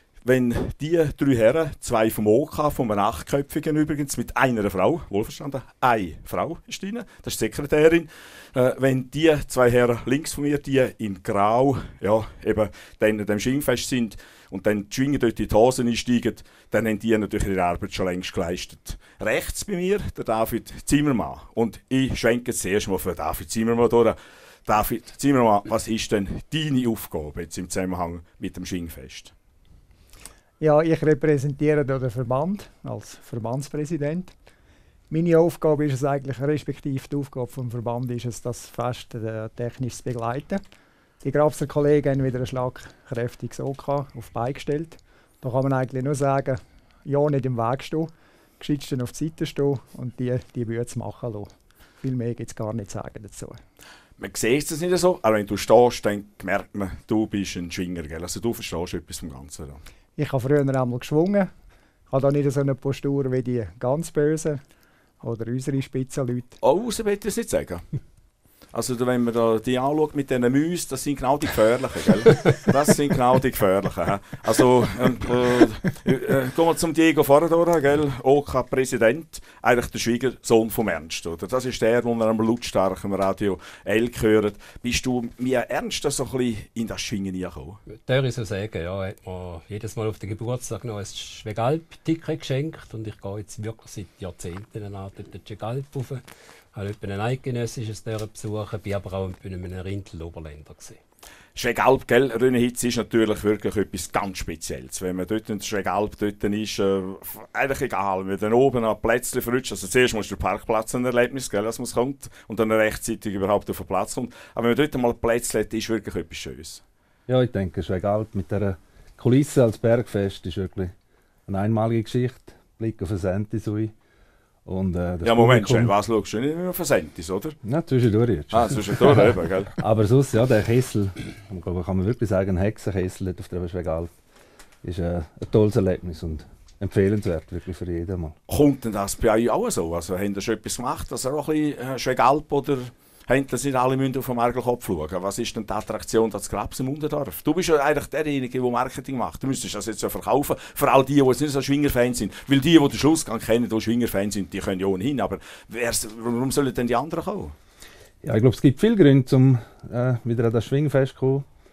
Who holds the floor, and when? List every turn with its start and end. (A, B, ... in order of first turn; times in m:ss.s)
0:00.2-0:29.3 A
0:30.6-0:34.3 B
0:35.1-0:40.6 B
0:41.2-0:53.6 B
0:54.2-0:59.8 A
1:00.2-1:01.5 B
1:02.1-1:04.6 B
1:05.2-1:06.6 B
1:06.6-1:07.8 A
1:08.7-1:27.8 A
1:28.0-1:36.2 C
1:36.7-1:41.0 C
1:41.6-1:56.8 A
1:57.3-2:00.9 D
2:01.5-2:03.9 D
2:04.6-2:05.9 D
2:05.2-2:07.6 A
2:07.6-2:14.1 D
2:08.5-2:09.7 A
2:14.8-2:18.4 D
2:18.5-2:37.5 A
2:38.2-2:41.4 D